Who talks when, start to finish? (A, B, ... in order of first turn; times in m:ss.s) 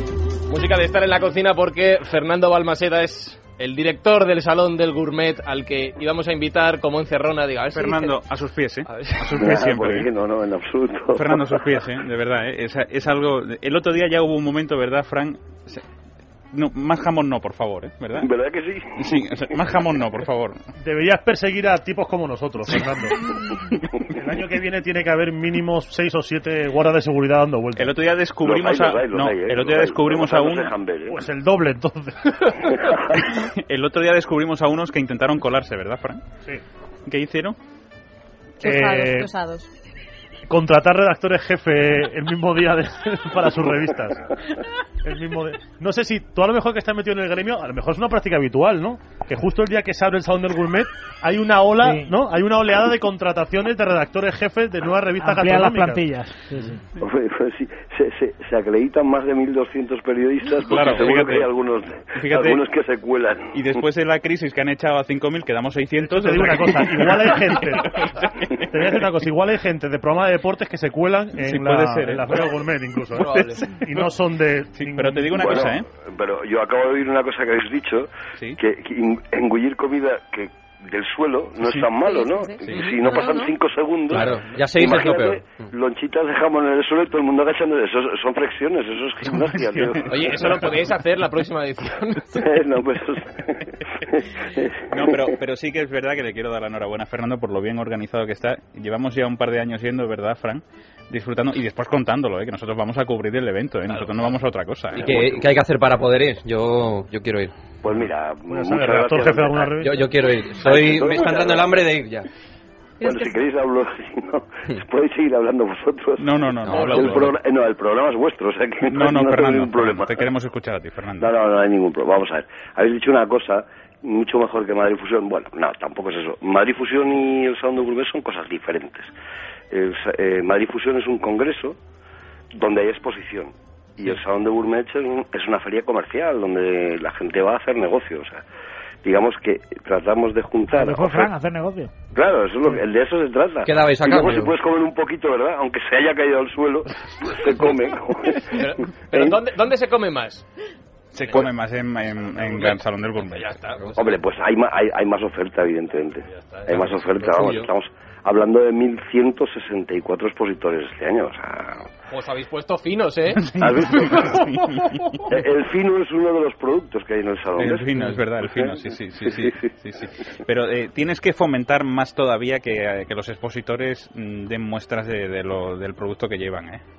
0:00.5-0:08.2 A
0:07.7-0:10.1 B
0:08.9-0:09.4 A
0:09.4-0:11.5 C
0:11.1-0:15.8 B
0:16.5-0:18.3 B
0:18.2-0:18.9 C
0:19.0-0:20.6 B
0:20.8-0:23.2 D
0:24.1-0:28.0 D
0:27.8-0:30.7 B
0:28.4-0:31.2 C
0:31.1-0:32.7 D
0:33.4-0:36.2 B
0:37.1-0:37.6 B
0:38.6-0:39.6 E
0:38.6-0:39.3 D
0:40.5-0:44.2 D
0:45.0-0:56.0 D
0:51.8-0:52.2 F
0:55.2-0:56.8 F
0:57.0-1:03.5 C
1:00.7-1:01.5 B
1:02.1-1:02.6 B
1:03.5-1:08.6 B
1:06.0-1:07.9 D
1:08.7-1:15.7 D
1:11.4-1:12.6 B
1:13.1-1:14.1 B
1:13.1-1:13.6 A
1:14.7-1:15.8 B
1:15.4-1:30.7 C
1:22.0-1:23.5 E
1:22.6-1:22.9 B
1:22.7-1:23.0 A
1:24.1-1:25.4 G
1:29.2-1:30.7 B
1:30.1-1:32.4 A
1:32.3-1:35.2 C
1:34.9-1:45.4 B
1:43.9-1:44.4 A
1:45.0-1:47.5 G
1:47.8-1:49.8 C
1:48.5-1:50.1 D
1:49.8-1:52.3 G
1:50.6-1:51.8 C
1:53.0-1:53.4 E
1:53.0-2:00.2 C
1:56.2-1:57.4 B
1:56.7-1:57.1 G
1:56.7-1:57.1 A
1:58.9-2:01.3 B
2:01.2-2:09.1 C
2:09.7-2:11.8 C
2:12.5-2:18.4 C
2:19.0-2:21.3 C
2:20.7-2:21.9 F
2:22.1-2:29.4 C
2:23.6-2:24.5 G
2:28.5-2:30.4 A
2:31.1-2:33.6 B
2:32.2-2:34.2 A
2:34.0-2:41.9 C
2:36.3-2:37.7 A
2:42.1-2:43.5 A
2:43.4-2:45.3 B
2:43.6-2:44.5 C
2:45.2-2:49.7 C
2:47.6-2:56.8 B